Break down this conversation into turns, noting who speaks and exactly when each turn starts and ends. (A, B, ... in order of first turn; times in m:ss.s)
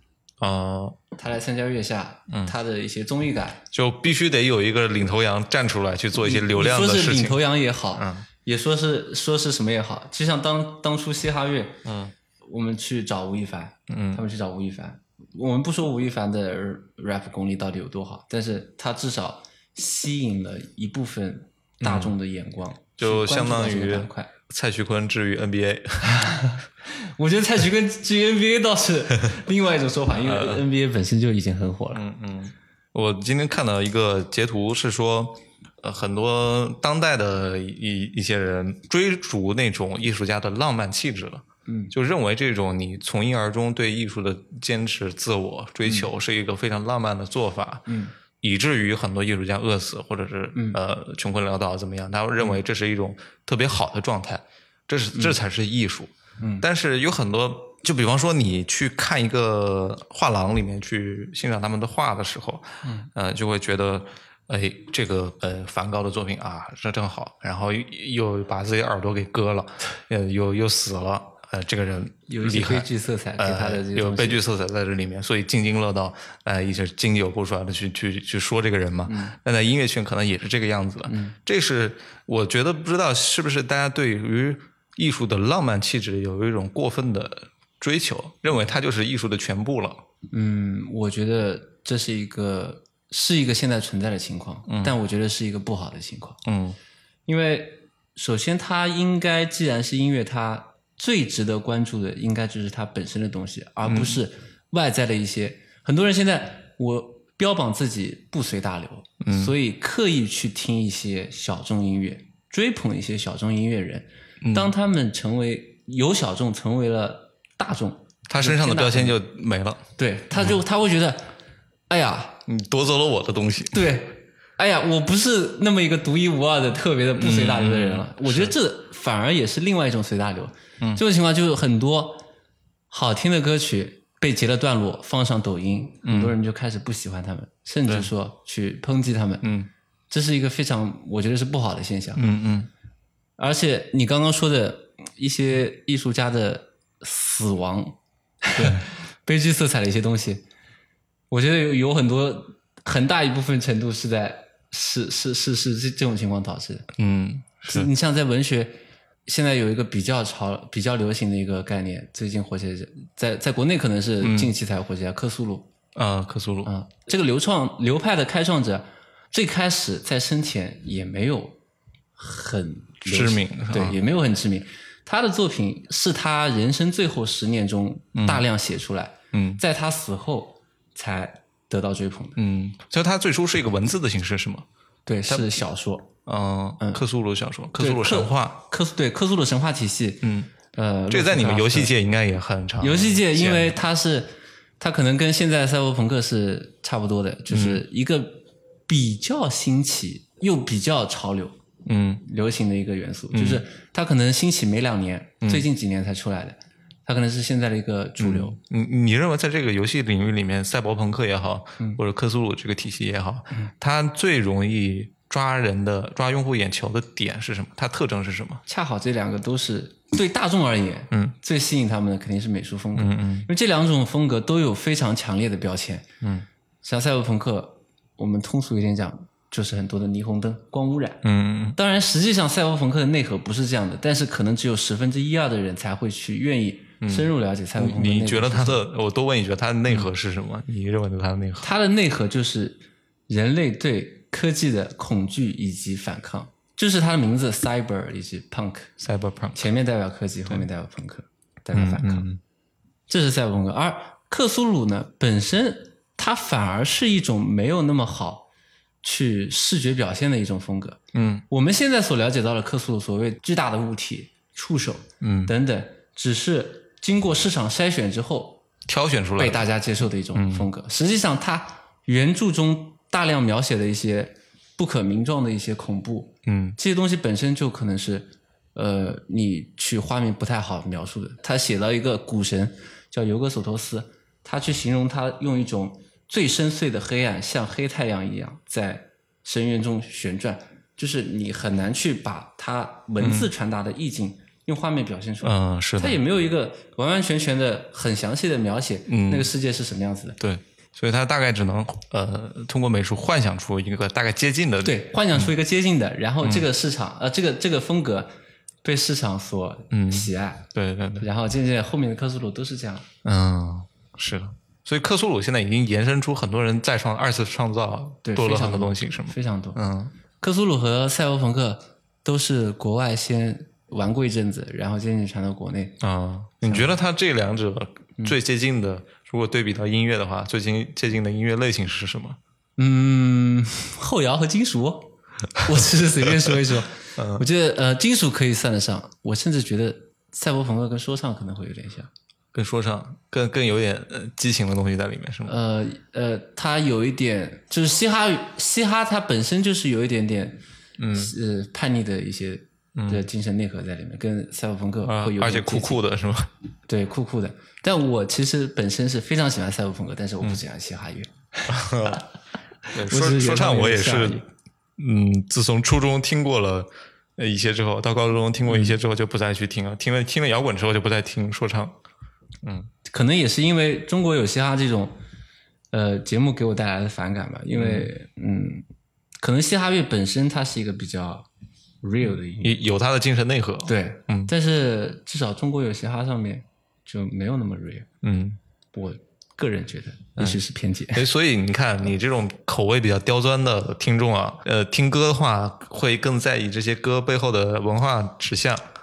0:00.4-0:01.0 A
0:01.1-0:03.6 B
0:03.7-0:07.4 A
0:06.2-0:11.8 B
0:07.9-0:08.2 A
0:11.8-0:12.1 A
0:12.4-0:24.3 B
0:13.9-0:14.2 A
0:21.8-0:22.2 A
0:23.0-0:26.2 A
0:26.0-0:32.0 B
0:30.1-0:30.6 A
0:31.9-0:47.9 A
0:41.6-0:41.9 B
0:47.9-0:48.1 B
0:48.4-1:30.0 A
0:55.1-0:55.4 B
0:56.4-0:56.6 B
1:02.8-1:03.1 B
1:12.3-1:14.4 B
1:19.0-1:19.4 B
1:21.1-1:21.4 B
1:30.3-1:36.4 B
1:34.7-1:34.9 A
1:36.4-1:36.8 A
1:37.3-1:59.2 B
1:43.8-1:44.2 A
1:49.2-1:49.5 A
1:54.4-1:54.7 A
1:58.3-1:59.8 A
2:00.0-2:01.3 B
2:01.9-2:02.4 B
2:02.5-2:03.9 A
2:03.7-2:12.2 B
2:07.2-2:08.5 A
2:12.9-2:19.5 B
2:16.0-2:16.3 A
2:19.4-2:19.7 A
2:20.1-2:22.2 B
2:22.2-2:22.7 A
2:23.4-2:30.4 B
2:31.3-2:36.9 B
2:37.0-2:37.9 A
2:37.6-2:45.7 B
2:44.2-2:44.5 A
2:45.9-2:46.7 A
2:46.6-2:51.6 B
2:52.2-3:02.4 B
2:53.0-2:54.0 A
2:58.2-2:58.4 A
2:59.3-2:59.6 A
3:02.4-3:04.6 A
3:05.0-3:06.1 B
3:05.3-3:05.5 A
3:06.2-3:08.6 A
3:07.8-3:11.9 B
3:10.2-3:10.5 A
3:11.1-3:13.8 A
3:12.8-3:21.6 B
3:17.5-3:17.8 A
3:21.8-3:22.2 A
3:22.2-3:28.6 B
3:23.3-3:23.6 A
3:28.2-3:38.6 A
3:38.6-3:46.1 B
3:42.9-3:43.5 A
3:46.8-3:51.2 B
3:51.2-3:51.8 A
3:51.8-3:58.8 B
3:57.0-4:01.7 A
4:01.6-4:08.9 B
4:09.0-4:09.6 A
4:09.5-4:12.3 B
4:11.7-4:12.4 A
4:13.1-4:18.5 B
4:19.0-4:28.6 B
4:21.1-4:21.4 A
4:25.2-4:25.5 A
4:28.9-4:29.7 A
4:29.4-5:00.4 B
4:30.3-4:30.7 A
4:36.4-4:36.8 A
4:53.2-4:53.5 A
4:55.4-4:56.2 A
4:59.1-4:59.5 A
5:00.4-5:05.5 A
5:04.8-5:08.3 B
5:06.4-5:06.7 A
5:08.8-5:13.0 B
5:09.9-5:11.2 A
5:13.2-5:20.1 A
5:18.2-5:19.8 B
5:20.4-5:26.0 B
5:26.0-5:32.4 A
5:26.6-5:26.9 B
5:32.8-5:42.1 B
5:37.2-5:37.4 A
5:42.5-5:45.6 A
5:45.4-5:56.0 B
5:51.0-5:51.3 A
5:53.0-5:53.2 A
5:55.0-5:56.5 A
5:56.9-6:02.2 B
6:01.7-6:02.2 A
6:02.8-6:04.4 B
6:02.9-6:04.4 A
6:05.0-6:12.0 A
6:08.6-6:09.0 B
6:12.6-6:12.9 A
6:13.0-6:15.2 B
6:15.9-6:18.8 B
6:17.8-6:18.1 A
6:19.4-6:21.5 B
6:22.0-6:22.8 B
6:22.6-6:24.5 A
6:23.8-6:28.1 B
6:28.2-6:28.6 A
6:28.9-6:31.3 B
6:30.4-6:30.6 A
6:31.1-6:38.9 A